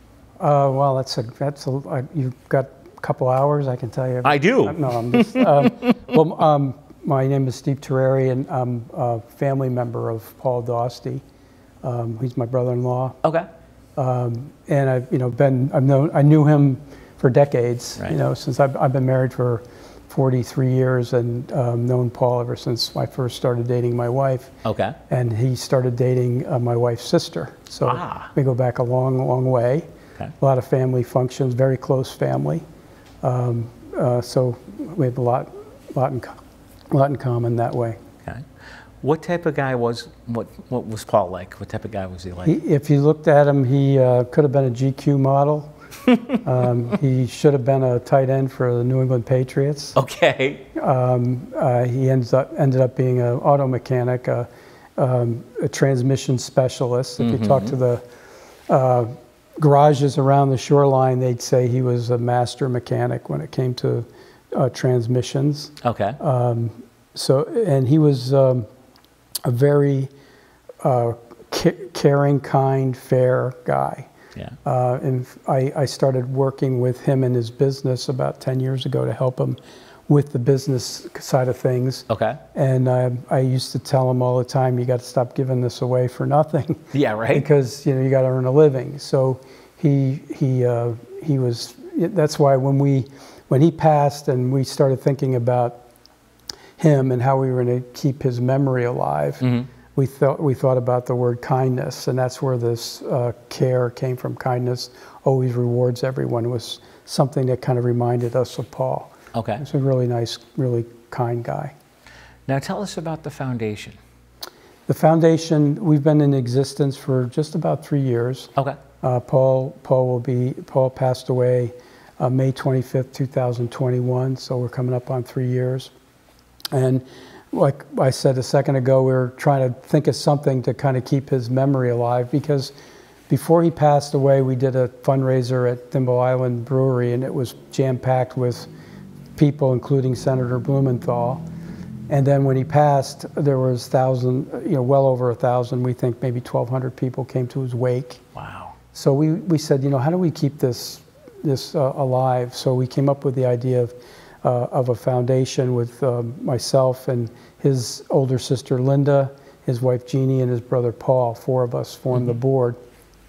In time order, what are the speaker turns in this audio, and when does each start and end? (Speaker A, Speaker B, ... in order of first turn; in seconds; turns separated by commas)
Speaker A: 0.4-11.2, Speaker B: 4.2-6.1, Speaker A: 11.8-13.2, Speaker A: 14.0-24.5, Speaker B: 24.6-25.0, Speaker A: 25.1-29.9, Speaker B: 27.8-28.3, Speaker A: 30.4-32.6, Speaker A: 33.2-36.4, Speaker A: 36.9-38.0, Speaker B: 38.2-42.6, Speaker A: 42.4-45.7, Speaker A: 46.3-50.0, Speaker B: 50.0-50.7, Speaker A: 50.7-58.0, Speaker B: 57.2-57.8, Speaker A: 58.7-68.7, Speaker B: 65.8-66.2, Speaker A: 69.4-70.1, Speaker A: 70.8-74.1, Speaker A: 74.6-95.8, Speaker B: 82.1-82.4, Speaker B: 86.9-87.5, Speaker A: 96.8-111.7, Speaker B: 99.4-99.7, Speaker B: 109.3-109.6, Speaker B: 112.5-114.0, Speaker A: 114.9-125.9, Speaker A: 126.7-132.7, Speaker A: 133.3-138.7, Speaker A: 139.3-141.4, Speaker A: 142.1-148.2, Speaker B: 148.3-148.7, Speaker A: 148.9-162.8